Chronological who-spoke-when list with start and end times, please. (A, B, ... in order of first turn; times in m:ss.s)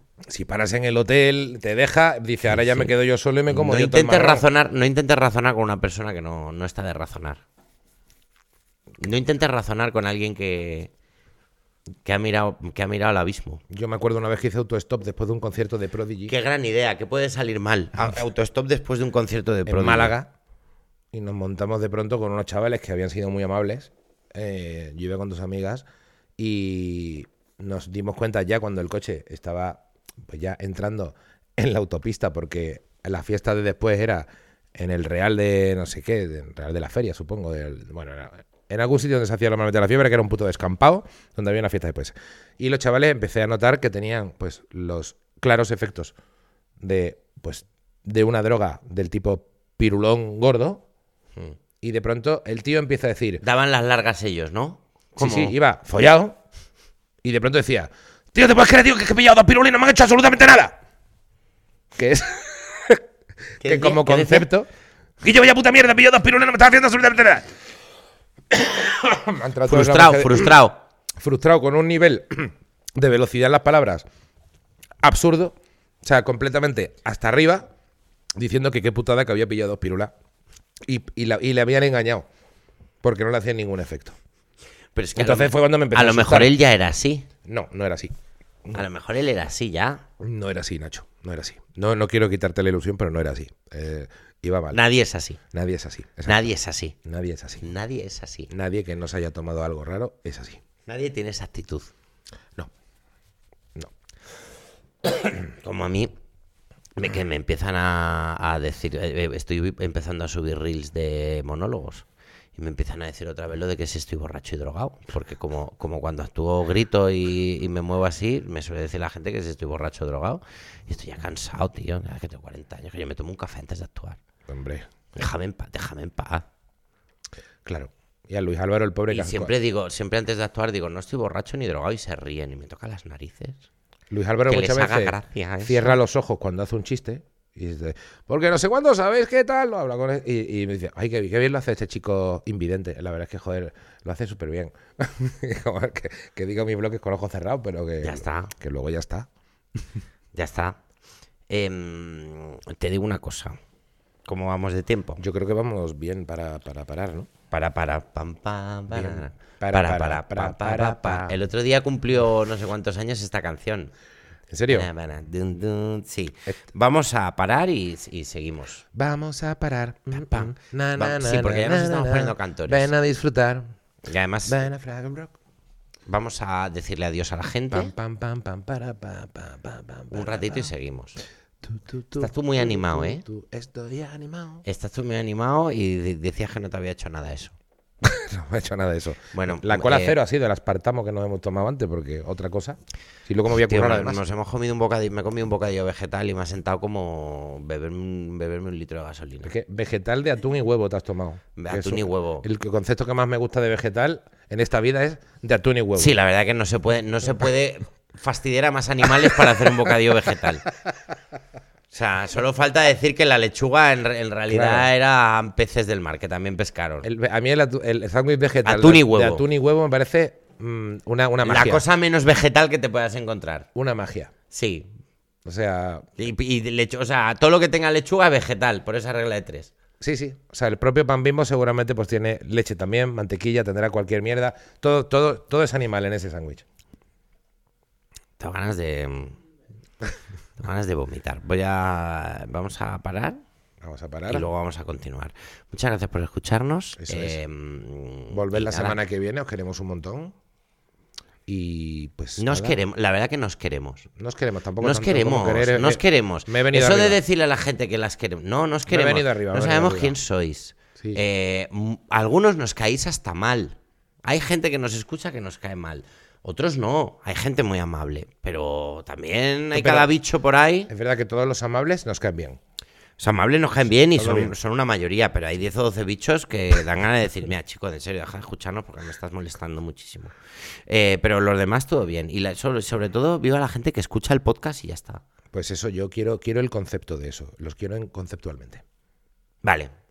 0:00.3-0:04.5 A
0:02.5-0:02.9 B
0:03.5-0:07.4 B
0:09.0-0:10.9 B
0:12.0-0:13.6 B
0:13.7-0:16.3 A
0:16.3-0:20.1 B
0:19.7-0:20.3 A
0:21.1-0:25.8 A
0:26.4-0:46.1 A
0:46.8-0:50.8 A
0:51.8-0:53.4 A
0:53.4-0:55.6 B
0:55.2-0:56.4 A
0:57.2-1:00.8 A
1:02.0-1:03.0 A
1:03.6-1:04.7 A
1:03.6-1:04.5 B
1:05.2-1:07.5 A
1:08.5-1:10.6 A
1:09.7-1:10.8 B
1:11.2-1:14.1 A
1:15.0-1:17.7 A
1:18.4-1:20.1 A
1:20.8-1:22.3 A
1:23.0-1:24.2 A
1:25.0-1:27.3 B
1:25.2-1:26.6 A
1:27.4-1:28.1 A
1:28.7-1:30.0 B
1:30.2-1:34.8 A
1:34.7-1:35.4 B
1:35.5-1:36.5 A
1:36.3-1:37.0 B
1:37.0-1:37.7 A
1:37.6-1:38.5 B
1:38.5-1:40.6 A
1:40.9-1:41.9 B
1:45.4-1:46.1 B
1:47.0-2:04.2 B
2:04.5-2:04.8 A
2:05.2-2:06.5 B
2:07.6-2:09.5 A
2:09.1-2:13.6 B
2:14.1-2:29.3 A
2:14.5-2:16.0 B
2:28.0-2:28.5 B
2:30.3-2:30.8 B
2:31.5-2:33.6 B
2:34.3-2:35.2 B
2:35.2-2:37.3 A
2:37.5-2:43.9 B
2:38.9-2:41.4 A
2:44.5-2:44.9 A
2:44.7-2:48.8 B
2:48.9-2:53.7 A
2:50.3-2:52.9 B
2:54.1-2:54.6 B
2:54.5-2:55.3 A
2:56.1-2:57.9 B
2:57.7-3:00.7 A
3:00.1-3:01.2 B
3:01.6-3:04.6 A
3:02.2-3:03.2 B
3:04.6-3:07.6 B
3:08.0-3:14.2 A
3:09.3-3:10.2 B
3:13.5-3:19.5 B
3:19.4-3:26.2 A
3:21.6-3:22.5 B
3:26.0-3:30.7 B
3:31.9-3:37.1 B
3:34.5-3:34.9 A
3:37.0-3:41.8 A
3:38.6-3:39.4 B
3:41.4-3:43.7 B
3:43.8-3:44.3 A
3:44.5-3:44.9 B
3:45.4-3:46.1 A
3:46.2-3:49.7 B
3:50.0-3:56.6 A
3:58.4-3:59.4 B
4:00.6-4:03.4 B
4:03.8-4:04.5 A
4:04.3-4:09.0 B
4:07.0-4:07.4 A
4:08.3-4:10.3 A
4:11.5-4:12.8 A
4:12.4-4:14.1 B
4:14.2-4:17.2 A
4:14.8-4:30.9 B
4:18.9-4:20.2 A
4:29.7-4:30.1 A
4:30.9-4:32.6 A
4:33.2-4:40.3 B
4:34.2-4:34.5 A
4:40.9-4:45.2 B
4:45.5-4:48.8 A
4:49.6-4:49.9 B